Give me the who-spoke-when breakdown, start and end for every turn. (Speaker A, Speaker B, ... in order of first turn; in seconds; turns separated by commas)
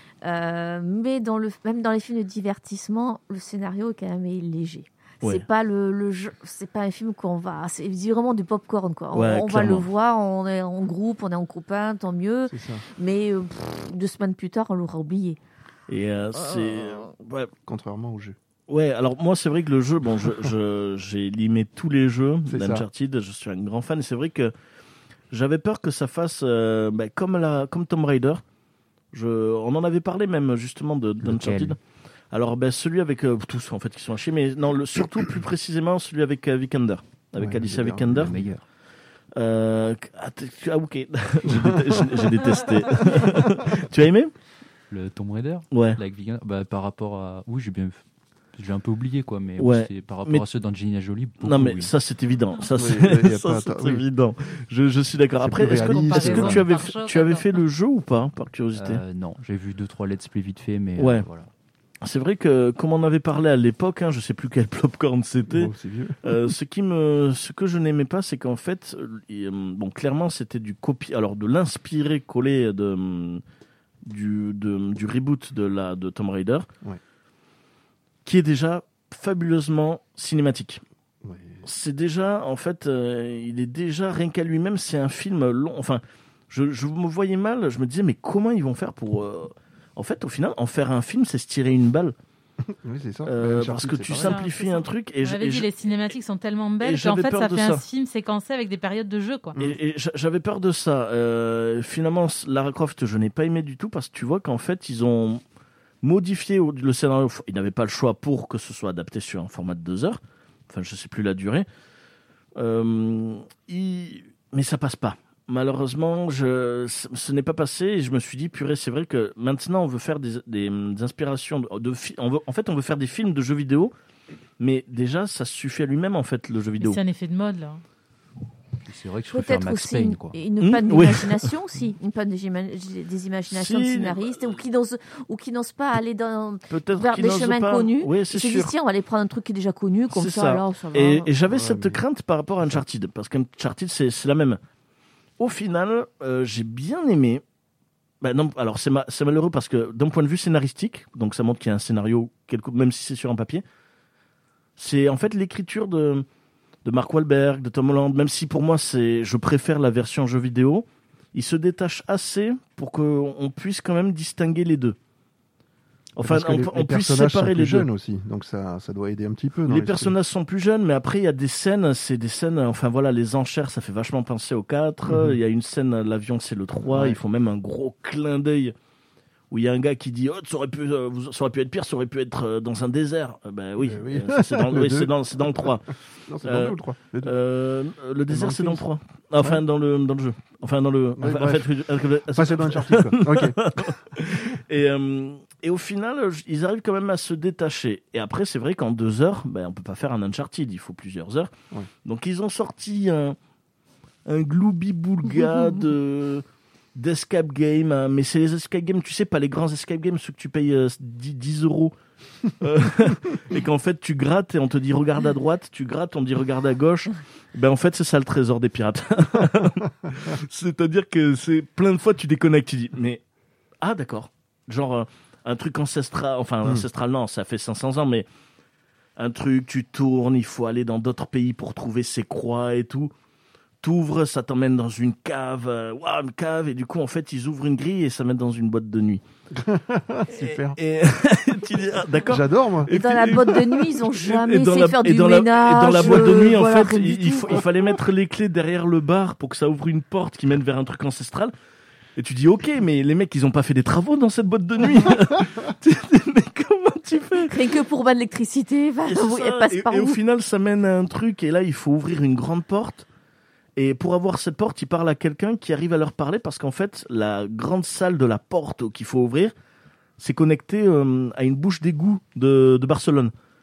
Speaker A: 0.2-15.4, Speaker B: 9.1-9.9, Speaker C: 12.5-12.8, Speaker B: 15.9-17.5, Speaker C: 17.6-18.4, Speaker B: 18.7-24.5, Speaker C: 22.5-22.9, Speaker B: 25.3-28.4, Speaker B: 29.1-31.8, Speaker D: 31.2-31.8, Speaker B: 32.3-38.3, Speaker C: 37.4-38.5, Speaker D: 38.1-38.6, Speaker B: 39.4-44.3, Speaker C: 41.5-42.4, Speaker C: 43.1-43.4, Speaker D: 44.9-48.0, Speaker B: 45.7-46.0, Speaker D: 48.5-51.9, Speaker B: 49.6-50.4, Speaker B: 51.4-59.0, Speaker C: 52.7-54.0, Speaker C: 55.4-56.7, Speaker E: 55.7-57.5, Speaker D: 58.7-61.5, Speaker B: 61.0-61.2, Speaker B: 62.0-73.4, Speaker C: 65.5-66.5, Speaker B: 74.0-76.7, Speaker B: 78.2-80.8, Speaker C: 81.2-81.6, Speaker B: 81.6-92.1, Speaker C: 92.6-94.4, Speaker B: 93.2-95.7, Speaker E: 94.1-99.6, Speaker B: 96.8-97.8, Speaker B: 99.6-105.4, Speaker B: 106.0-111.7, Speaker B: 112.5-123.9, Speaker B: 124.6-127.0, Speaker E: 126.8-127.8, Speaker D: 128.8-130.3, Speaker A: 129.3-141.3, Speaker B: 130.6-131.5, Speaker B: 133.5-134.6, Speaker B: 136.7-138.7, Speaker B: 140.1-144.6, Speaker C: 141.5-142.0, Speaker B: 145.4-147.4, Speaker B: 148.2-153.6, Speaker B: 154.8-156.2, Speaker B: 156.8-165.0, Speaker B: 166.2-167.9, Speaker C: 166.2-170.1, Speaker B: 169.7-178.7, Speaker C: 175.1-175.4, Speaker C: 176.9-177.2, Speaker B: 179.5-185.9, Speaker C: 183.8-185.8, Speaker C: 186.3-187.3, Speaker B: 186.4-201.5, Speaker C: 188.3-188.8, Speaker C: 191.2-191.7, Speaker C: 192.3-193.9, Speaker B: 202.0-203.4, Speaker B: 204.2-206.4, Speaker B: 206.9-211.9, Speaker B: 212.5-223.2, Speaker B: 223.8-228.3, Speaker B: 229.2-233.1, Speaker B: 233.8-239.2, Speaker C: 239.5-240.8, Speaker B: 240.3-251.5, Speaker C: 242.2-242.9, Speaker A: 242.9-247.7, Speaker C: 245.9-246.5, Speaker B: 252.2-257.7, Speaker A: 257.5-260.2, Speaker B: 259.1-263.1, Speaker B: 263.8-269.5, Speaker B: 270.2-273.3